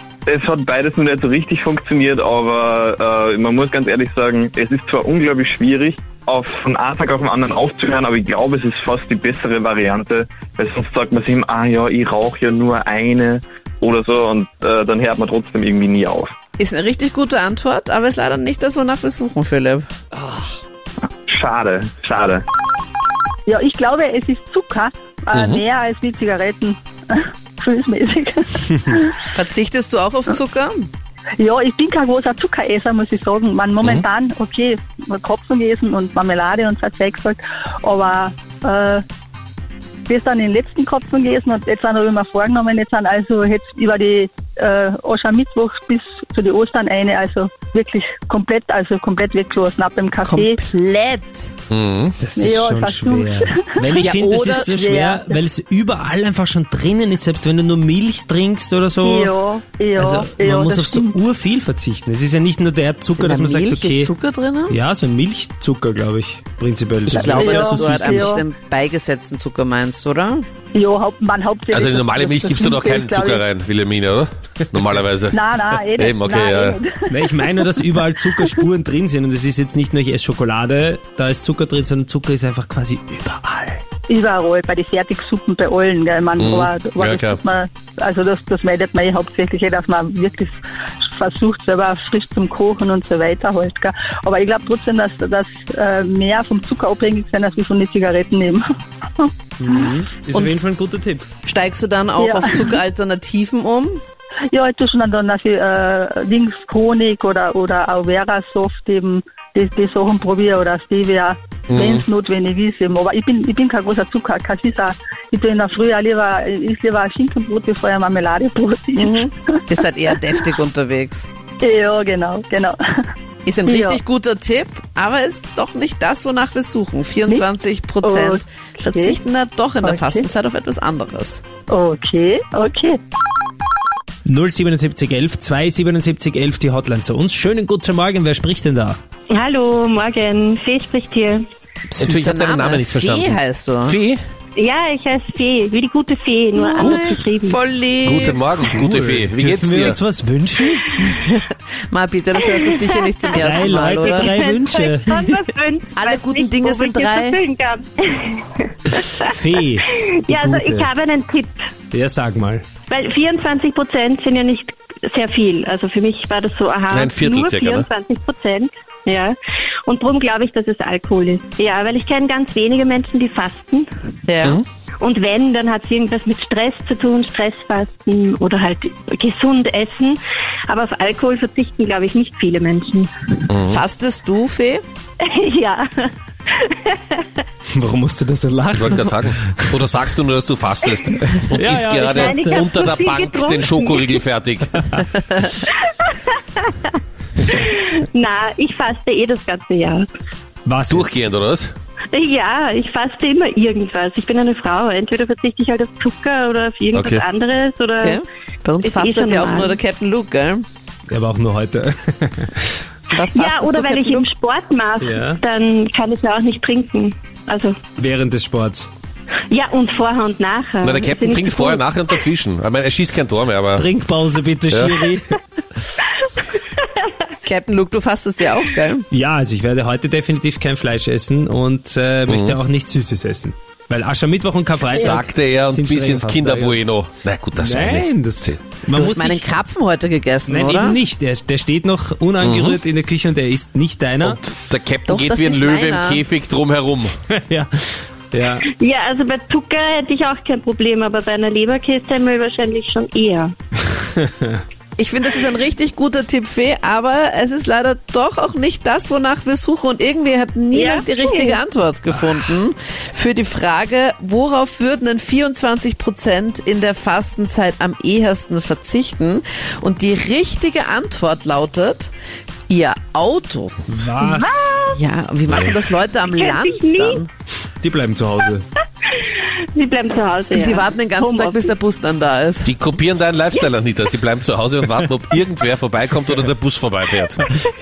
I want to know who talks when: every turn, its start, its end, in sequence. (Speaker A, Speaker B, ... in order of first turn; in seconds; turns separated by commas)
Speaker A: 0.3-16.3, Speaker B: 16.6-19.9, Speaker A: 21.3-22.4, Speaker C: 23.5-29.1, Speaker D: 25.3-25.6, Speaker B: 29.3-30.9, Speaker C: 31.4-39.0, Speaker C: 40.1-50.6, Speaker B: 50.2-51.5, Speaker D: 51.7-52.1, Speaker E: 52.2-59.3, Speaker C: 52.4-54.0, Speaker B: 53.9-54.7, Speaker C: 54.7-55.4, Speaker C: 59.0-61.1, Speaker E: 60.0-64.1, Speaker B: 63.1-64.8, Speaker E: 64.7-68.4, Speaker B: 67.0-70.4, Speaker C: 67.3-68.4, Speaker C: 70.7-73.4, Speaker D: 71.7-75.4, Speaker C: 75.3-77.5, Speaker D: 75.9-76.8, Speaker E: 77.1-83.8, Speaker C: 84.1-98.6, Speaker D: 86.4-87.4, Speaker E: 99.6-101.3, Speaker B: 101.5-104.0, Speaker C: 102.2-102.7, Speaker C: 104.5-119.6, Speaker D: 111.7-112.0, Speaker B: 119.0-121.3, Speaker C: 121.6-123.1, Speaker B: 123.4-131.4, Speaker C: 123.7-124.0, Speaker C: 128.0-128.4, Speaker C: 129.8-130.2, Speaker C: 131.7-133.0, Speaker E: 134.2-139.0, Speaker F: 139.3-141.5, Speaker D: 141.9-144.2, Speaker B: 142.0-144.0, Speaker F: 144.6-147.6, Speaker D: 146.7-147.2, Speaker B: 146.8-148.5, Speaker D: 148.0-150.0, Speaker E: 148.7-150.9, Speaker B: 151.1-154.3, Speaker F: 153.1-159.1, Speaker E: 153.3-155.2, Speaker B: 156.0-157.4, Speaker E: 159.2-160.9, Speaker F: 160.3-161.5, Speaker E: 161.9-162.6, Speaker F: 162.9-173.9, Speaker D: 166.9-167.9, Speaker B: 174.3-174.6, Speaker F: 175.0-183.4, Speaker D: 183.5-183.8, Speaker B: 183.7-184.8, Speaker F: 185.2-187.2, Speaker E: 187.7-189.7, Speaker D: 188.8-195.1, Speaker E: 191.3-192.7, Speaker F: 192.1-194.2, Speaker E: 194.7-195.0, Speaker F: 197.4-200.1, Speaker E: 200.6-201.1, Speaker D: 200.9-201.7, Speaker F: 202.1-208.2, Speaker D: 206.9-207.2, Speaker B: 208.0-210.6, Speaker F: 208.8-209.8, Speaker E: 211.1-212.5, Speaker B: 213.1-214.2, Speaker F: 213.2-217.8, Speaker E: 215.0-215.4, Speaker E: 218.0-218.9, Speaker F: 219.5-221.9, Speaker D: 220.8-223.9, Speaker E: 223.8-225.3, Speaker D: 224.7-225.0, Speaker B: 227.4-229.1, Speaker E: 229.1-236.8, Speaker D: 232.3-232.6, Speaker D: 234.9-238.6, Speaker E: 237.6-239.5, Speaker B: 238.9-241.0, Speaker E: 240.4-244.4, Speaker D: 242.4-242.8, Speaker D: 244.2-247.1, Speaker B: 245.1-246.2, Speaker E: 247.4-247.7, Speaker E: 248.3-248.6, Speaker F: 248.8-253.5, Speaker E: 254.2-254.6, Speaker B: 255.0-272.1, Speaker F: 260.7-261.6, Speaker B: 272.7-274.1, Speaker E: 273.9-274.7, Speaker F: 274.2-275.0, Speaker B: 274.9-277.3, Speaker F: 276.2-277.2, Speaker E: 277.8-278.6, Speaker F: 279.7-281.7, Speaker B: 280.5-282.7, Speaker D: 282.6-287.4